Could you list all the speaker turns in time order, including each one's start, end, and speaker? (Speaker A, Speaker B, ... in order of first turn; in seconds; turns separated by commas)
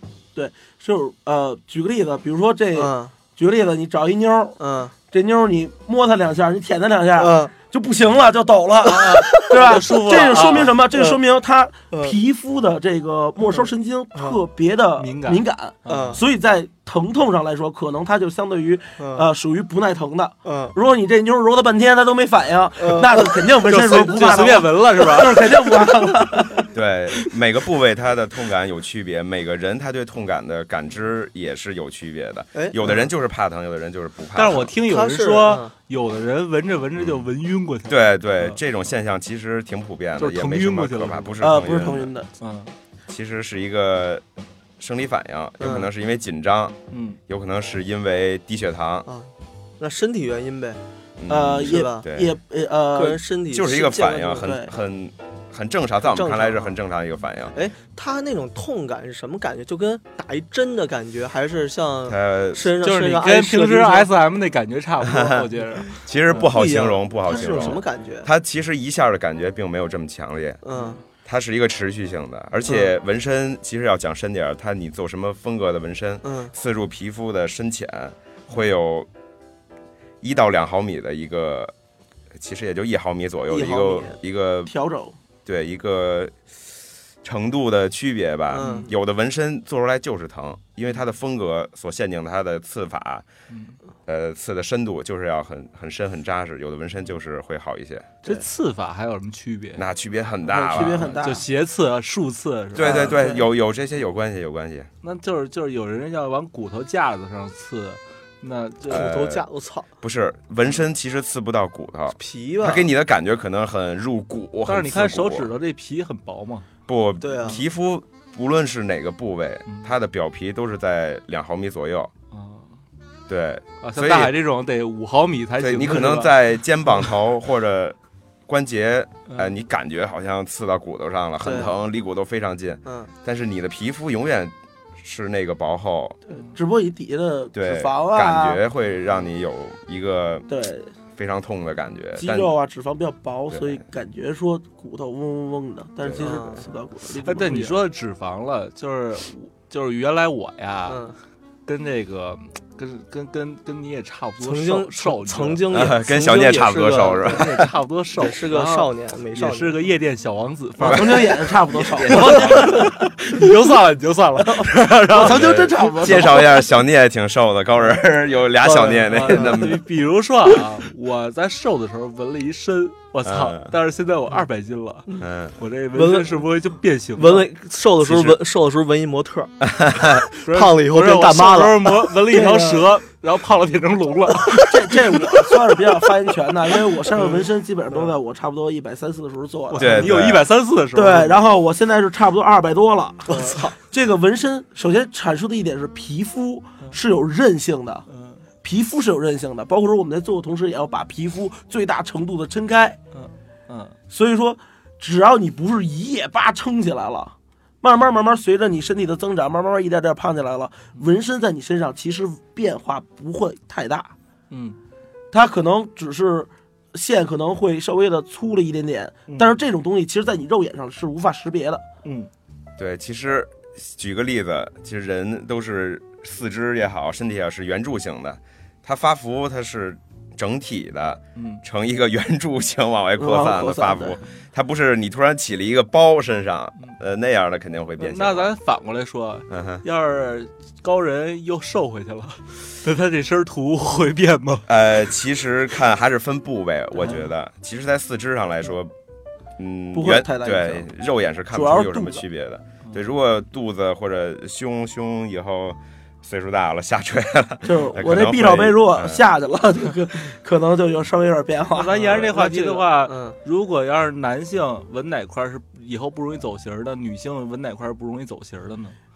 Speaker A: 0.3-4.6, Speaker B: 2.7-3.1, Speaker B: 4.6-4.9, Speaker A: 5.1-26.7, Speaker B: 7.2-7.5, Speaker C: 8.8-10.8, Speaker B: 8.9-11.2, Speaker B: 11.9-12.2, Speaker B: 13.5-14.4, Speaker C: 15.0-16.2, Speaker B: 15.8-16.2, Speaker B: 19.0-19.3, Speaker B: 20.4-20.8, Speaker B: 22.8-23.3, Speaker C: 23.6-25.9, Speaker B: 23.9-24.6, Speaker D: 26.7-34.7, Speaker C: 32.8-33.1, Speaker C: 34.3-38.6, Speaker B: 34.9-35.7, Speaker D: 37.0-37.3, Speaker D: 37.9-42.1, Speaker C: 40.2-41.4, Speaker A: 41.4-42.3, Speaker C: 42.4-42.7, Speaker D: 43.1-44.2, Speaker D: 44.8-46.8, Speaker B: 45.6-45.9, Speaker C: 46.9-47.2, Speaker D: 47.3-49.1, Speaker B: 49.0-50.8, Speaker D: 51.2-52.3, Speaker A: 51.3-53.2, Speaker B: 51.5-52.0, Speaker B: 52.9-54.5, Speaker D: 53.5-57.5, Speaker A: 54.4-54.7, Speaker B: 56.0-56.8, Speaker B: 57.5-64.1, Speaker D: 62.1-62.6, Speaker C: 62.8-66.5, Speaker D: 65.0-70.6, Speaker B: 66.4-68.3, Speaker B: 70.6-71.0, Speaker D: 71.2-79.1, Speaker B: 76.2-76.5, Speaker D: 80.2-81.7, Speaker D: 82.3-84.7, Speaker B: 83.5-84.2, Speaker A: 84.7-85.1, Speaker D: 85.5-86.3, Speaker D: 87.2-93.2, Speaker B: 88.5-88.9, Speaker C: 88.6-88.9, Speaker C: 93.5-93.8, Speaker D: 94.0-98.1, Speaker C: 98.2-99.8, Speaker D: 99.8-101.2, Speaker A: 100.5-101.4, Speaker C: 100.7-103.3, Speaker D: 102.7-104.9, Speaker A: 102.8-103.4, Speaker C: 105.0-109.1, Speaker B: 108.8-109.9, Speaker D: 108.9-109.4, Speaker D: 110.0-115.5, Speaker B: 112.1-112.9, Speaker C: 114.7-116.7, Speaker D: 116.9-122.1, Speaker B: 117.2-117.6, Speaker C: 122.3-122.7, Speaker D: 123.3-124.3, Speaker C: 123.8-127.1, Speaker D: 125.6-136.2, Speaker B: 131.4-131.7, Speaker B: 132.8-133.1, Speaker A: 136.5-138.6, Speaker D: 137.5-140.5, Speaker A: 140.5-140.9, Speaker D: 141.2-142.5, Speaker A: 142.2-147.8, Speaker D: 143.5-143.8, Speaker D: 146.0-146.3, Speaker B: 146.2-146.7, Speaker C: 147.2-151.0, Speaker B: 150.9-151.2, Speaker C: 151.7-155.6, Speaker B: 154.4-157.6, Speaker D: 155.7-157.7, Speaker C: 156.8-166.2, Speaker B: 158.2-159.8, Speaker A: 160.8-163.1, Speaker D: 160.8-161.2, Speaker D: 161.8-162.4, Speaker B: 162.4-162.9, Speaker A: 165.1-166.6, Speaker D: 165.1-169.8, Speaker C: 168.7-177.4, Speaker D: 173.2-173.7, Speaker D: 175.2-175.6, Speaker B: 175.9-176.4, Speaker B: 177.2-179.5, Speaker D: 178.0-178.4, Speaker D: 179.6-180.2, Speaker B: 180.3-182.1, Speaker C: 180.4-185.6, Speaker A: 182.3-182.8, Speaker A: 184.4-190.2, Speaker C: 187.1-187.5, Speaker C: 189.7-191.4, Speaker D: 189.8-190.4, Speaker A: 190.9-198.1, Speaker B: 193.3-193.7, Speaker C: 198.1-198.4, Speaker A: 198.6-203.0, Speaker C: 203.1-204.0, Speaker A: 204.1-214.1, Speaker C: 214.5-214.8, Speaker A: 215.3-221.8, Speaker C: 219.3-219.6, Speaker C: 222.0-222.3, Speaker D: 222.8-238.5, Speaker C: 231.3-231.6, Speaker A: 233.2-234.2, Speaker C: 238.0-244.7, Speaker D: 239.5-239.8, Speaker D: 244.7-248.9, Speaker D: 249.6-259.2, Speaker A: 249.9-250.9, Speaker A: 251.5-252.2, Speaker A: 257.6-262.5, Speaker C: 261.7-268.9, Speaker B: 262.3-263.4